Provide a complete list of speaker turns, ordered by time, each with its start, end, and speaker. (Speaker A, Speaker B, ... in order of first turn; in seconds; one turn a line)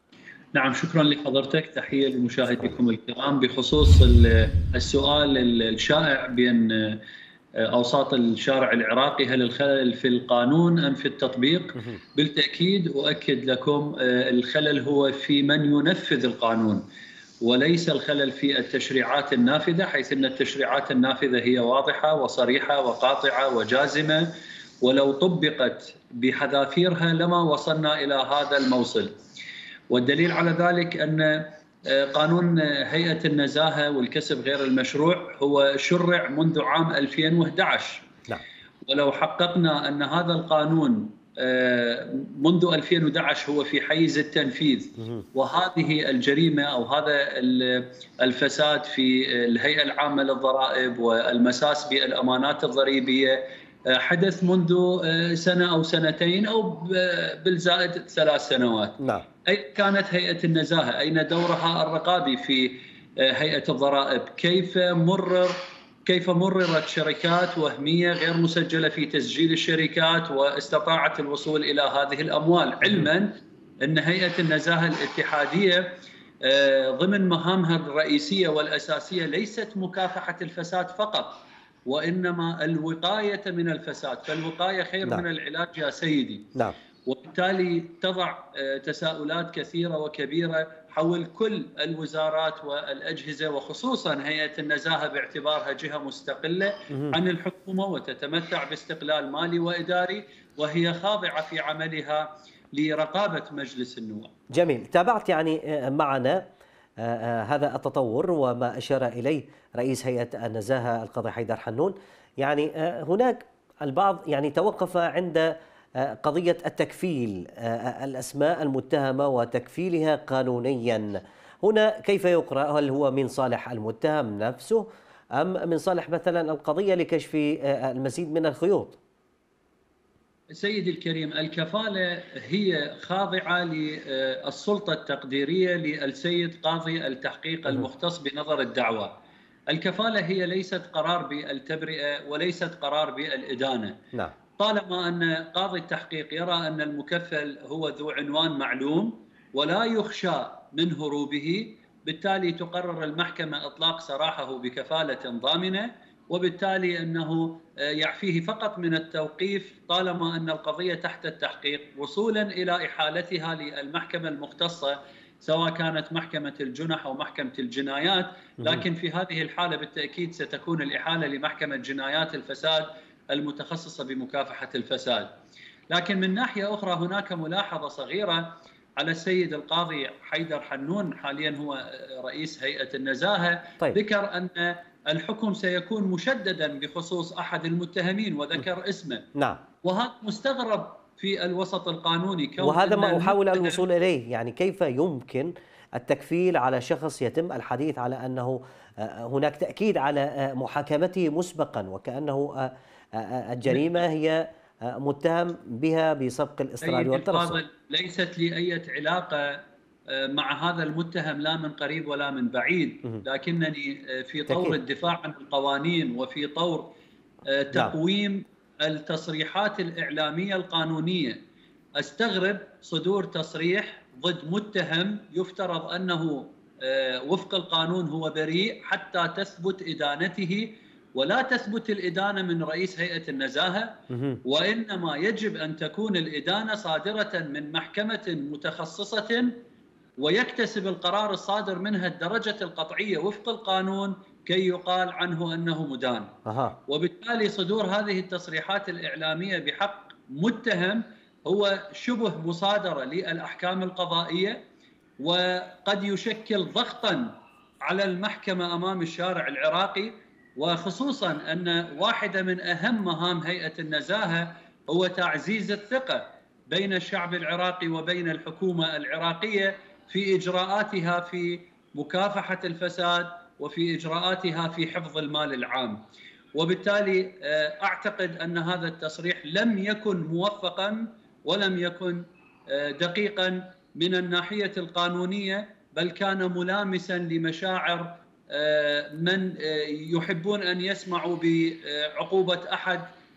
Speaker A: 0.5-7.0
Speaker A: 7.6-16.8
Speaker A: 17.4-29.1
Speaker A: 29.9-38.1
Speaker A: 38.9-86.5
Speaker B: 45.0-45.2
Speaker B: 59.0-59.2
Speaker A: 87.0-104.3
Speaker B: 104.5-106.4
Speaker B: 107.0-129.0
Speaker A: 130.5-139.2
Speaker A: 139.7-144.0
Speaker A: 144.6-175.3
Speaker A: 175.9-189.2
Speaker B: 189.3-189.6
Speaker A: 189.8-193.8
Speaker B: 192.6-207.6
Speaker A: 206.8-216.9
Speaker B: 214.5-214.8
Speaker A: 217.4-221.4
Speaker A: 222.0-239.5
Speaker B: 234.1-234.4
Speaker A: 240.2-246.3
Speaker B: 246.4-246.8
Speaker A: 246.9-254.6
Speaker A: 255.2-276.0
Speaker A: 276.5-293.1